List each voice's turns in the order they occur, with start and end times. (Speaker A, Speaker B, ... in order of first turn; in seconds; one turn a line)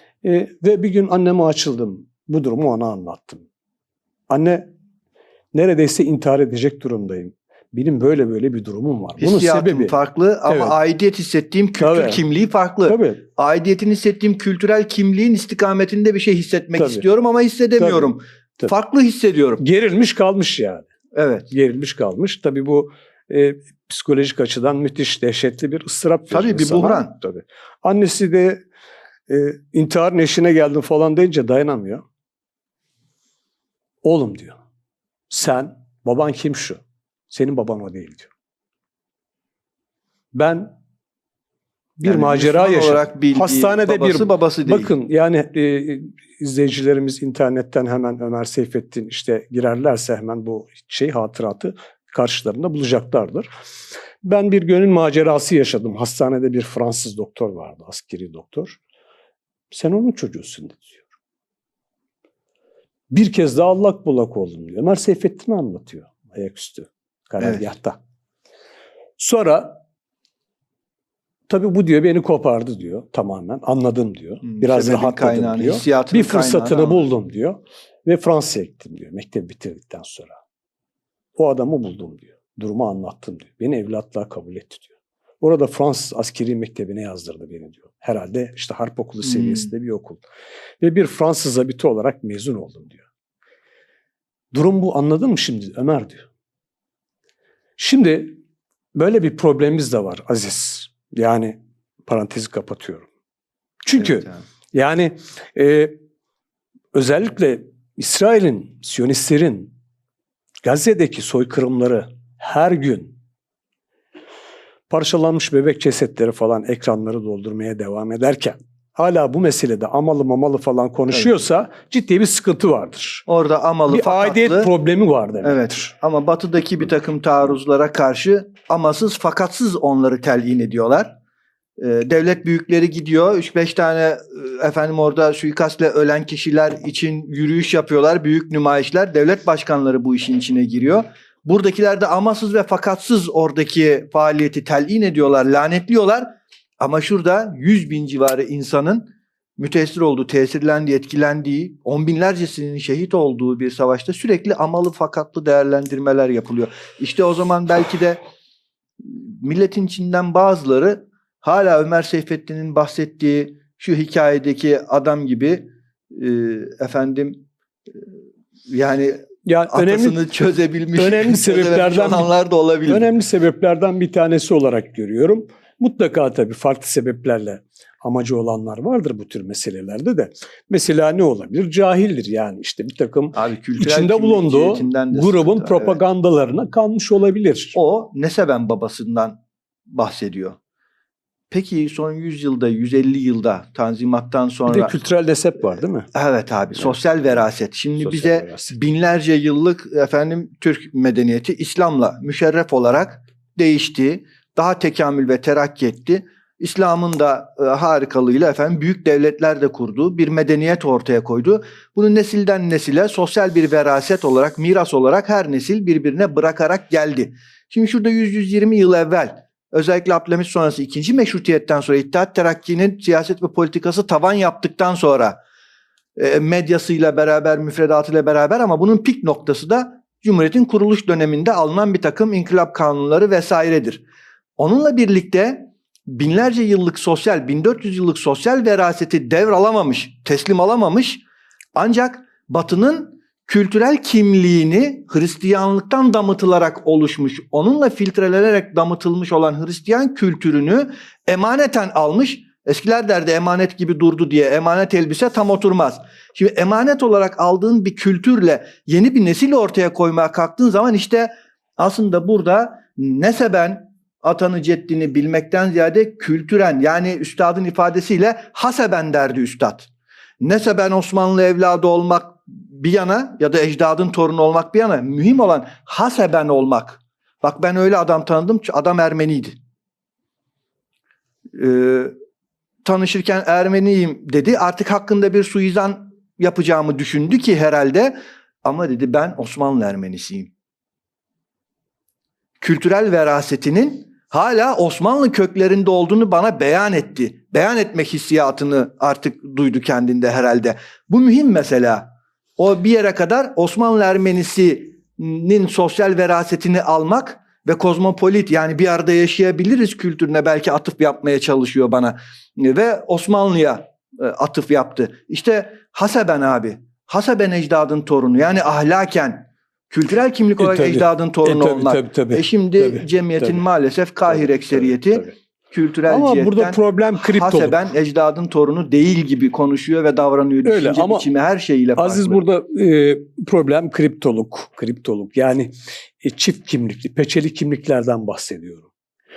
Speaker A: 0.2-3.4
Speaker A: 4.3-4.7
Speaker A: 5.5-9.9
Speaker B: 9.2-19.6
Speaker A: 10.4-10.8
Speaker A: 11.8-12.2
Speaker A: 12.9-13.2
Speaker A: 16.8-17.0
Speaker A: 17.8-18.7
Speaker A: 19.6-20.9
Speaker B: 21.1-21.5
Speaker A: 21.5-28.6
Speaker B: 26.3-27.1
Speaker A: 29.3-32.0
Speaker A: 34.0-34.6
Speaker A: 35.3-38.3
Speaker A: 40.3-40.7
Speaker A: 42.0-53.5
Speaker B: 42.0-44.9
Speaker A: 54.2-58.8
Speaker A: 59.7-61.0
Speaker A: 63.1-68.0
Speaker B: 67.4-67.6
Speaker A: 69.2-69.8
Speaker A: 71.5-80.4
Speaker B: 74.4-77.1
Speaker A: 81.3-84.9
Speaker A: 85.4-90.2
Speaker B: 89.2-89.7
Speaker A: 90.8-93.0
Speaker A: 94.5-96.2
Speaker A: 97.8-98.3
Speaker A: 98.9-103.1
Speaker A: 103.8-106.0
Speaker B: 104.0-104.4
Speaker A: 106.9-109.7
Speaker A: 110.6-113.1
Speaker A: 114.9-123.2
Speaker B: 123.3-124.7
Speaker A: 123.9-125.9
Speaker B: 125.4-131.1
Speaker B: 131.8-158.2
Speaker B: 159.0-167.4
Speaker B: 168.7-173.1
Speaker A: 169.4-170.2
Speaker A: 170.9-172.3
Speaker A: 172.9-187.8
Speaker B: 183.3-186.0
Speaker B: 187.7-190.6
Speaker B: 191.5-194.9
Speaker A: 194.7-196.1
Speaker B: 196.1-225.4
Speaker A: 198.0-198.8
Speaker B: 226.2-234.0
Speaker B: 234.6-241.2
Speaker B: 241.7-269.9
Speaker B: 270.4-279.6
Speaker B: 281.5-282.1
Speaker B: 282.8-290.5
Speaker B: 292.6-332.4
Speaker A: 320.6-323.6
Speaker A: 324.3-325.4
Speaker A: 326.1-327.8
Speaker A: 330.6-331.3
Speaker A: 332.0-338.9